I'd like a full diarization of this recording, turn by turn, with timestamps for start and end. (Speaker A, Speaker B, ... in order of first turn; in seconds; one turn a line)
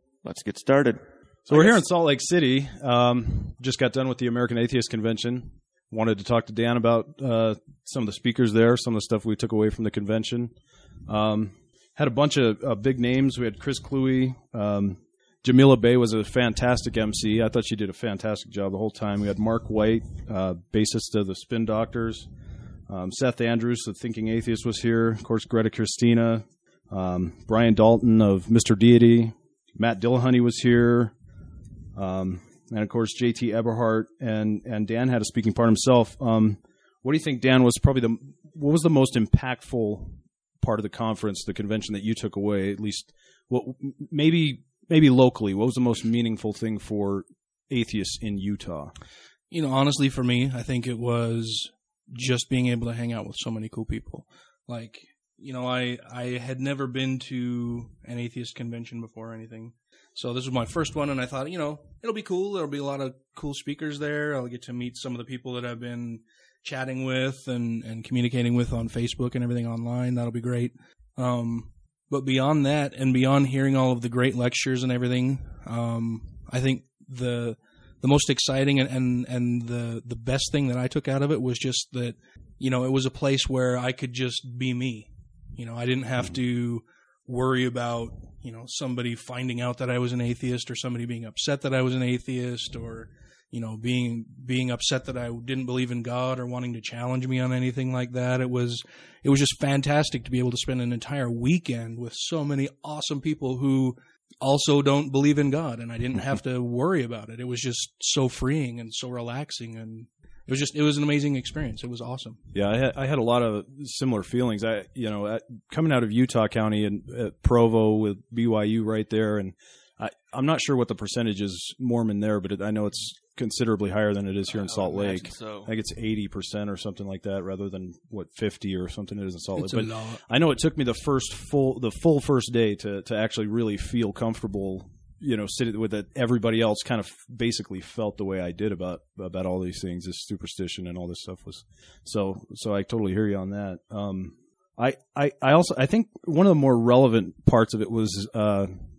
Speaker A: 0.2-1.8
Speaker B: 1.5-10.5
Speaker B: 11.1-22.3
Speaker B: 22.9-31.1
Speaker B: 31.9-48.9
Speaker C: 49.5-112.4
Speaker B: 112.5-148.7
Speaker A: 124.5-125.7
Speaker C: 129.5-130.2